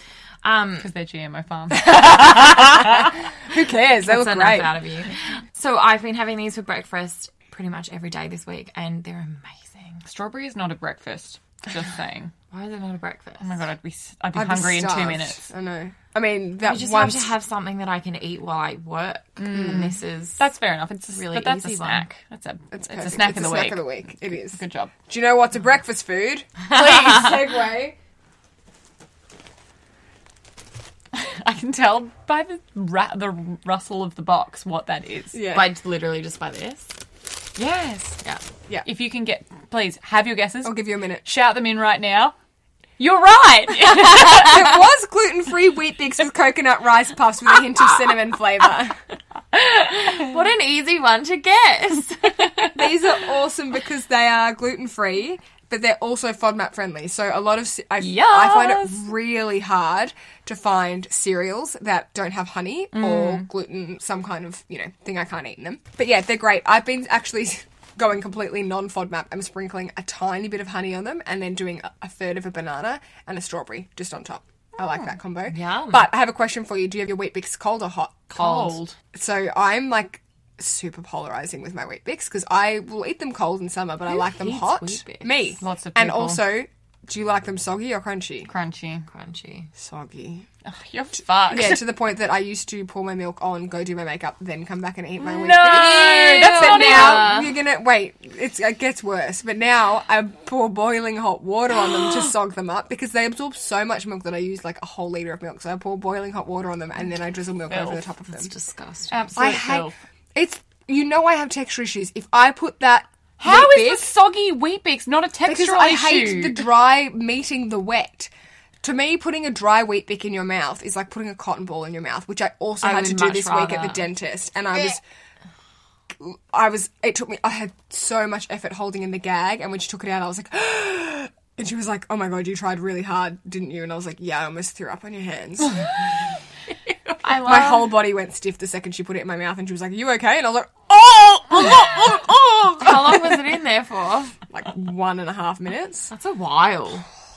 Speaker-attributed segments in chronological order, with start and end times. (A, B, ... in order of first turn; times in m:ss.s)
0:00.4-0:00.9 A
0:00.8-0:03.0 B
0:01.7-0:04.7 C
0:04.0-0:10.0 A
0:10.0-0:12.3 B
0:12.5-0:13.6 A
0:13.4-0:15.4 B
0:14.3-0:17.3 C
0:16.6-0:20.4 A
0:19.4-0:24.9 B
0:19.5-0:19.9 C
0:21.1-0:22.0 A
0:22.7-0:28.0 C
0:31.1-0:35.4 B
0:35.3-0:35.7 C
0:35.5-0:36.9 A
0:37.6-0:38.2 B
0:38.8-0:42.3 B
0:40.6-0:41.2 C
0:43.0-0:44.7 B
0:43.8-0:49.0 C
0:49.8-0:50.3 B
0:49.9-0:52.8 A
0:52.7-1:28.5 C
0:58.0-0:59.0 B
1:02.9-1:03.5 B
1:15.5-1:16.1 A
1:18.3-1:18.9 B
1:24.1-1:25.6 A
1:25.6-1:26.5 B
1:28.5-1:29.1 B
1:29.1-1:29.7 A
1:29.8-1:30.5 C
1:30.6-1:31.8 B
1:31.5-1:48.5 C
1:35.2-1:37.4 B
1:35.7-1:37.5 A
1:47.7-1:48.0 B
1:48.3-1:49.2 A
1:49.1-1:49.9 B
1:49.3-1:54.1 C
1:53.4-1:56.6 B
1:55.4-1:58.3 C
1:58.8-2:05.0 C
2:02.8-2:04.0 A
2:06.2-2:15.9 C
2:17.2-2:18.0 B
2:17.2-2:23.3 C
2:22.8-2:24.4 A
2:24.5-2:26.1 C
2:26.1-2:27.0 A